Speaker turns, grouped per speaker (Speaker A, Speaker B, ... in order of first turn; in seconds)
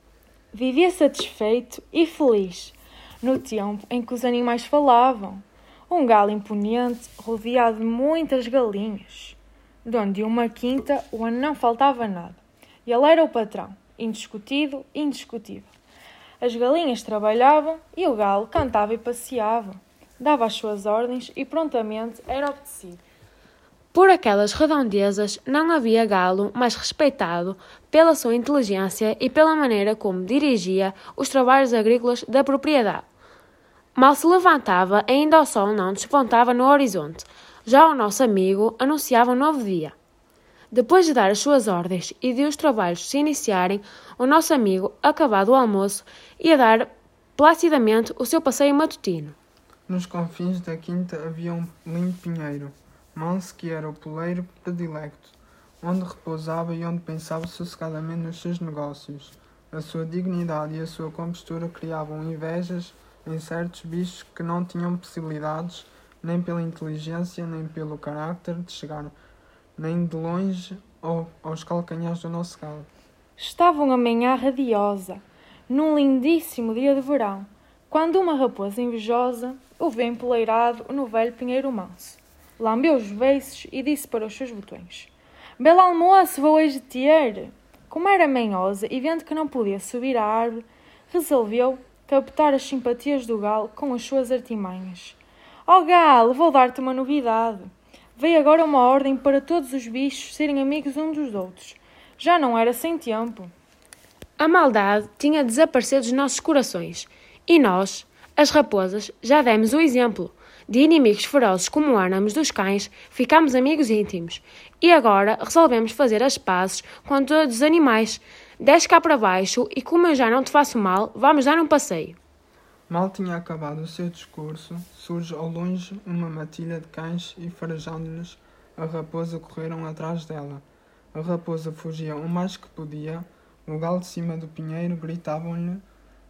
Speaker A: 0.5-15.7, 16.4-23.0, 73.4-103.5
Speaker B: 23.9-33.0, 33.9-39.9, 40.7-49.4, 104.4-122.2
Speaker C: 49.9-69.1, 69.8-72.9, 122.9-135.8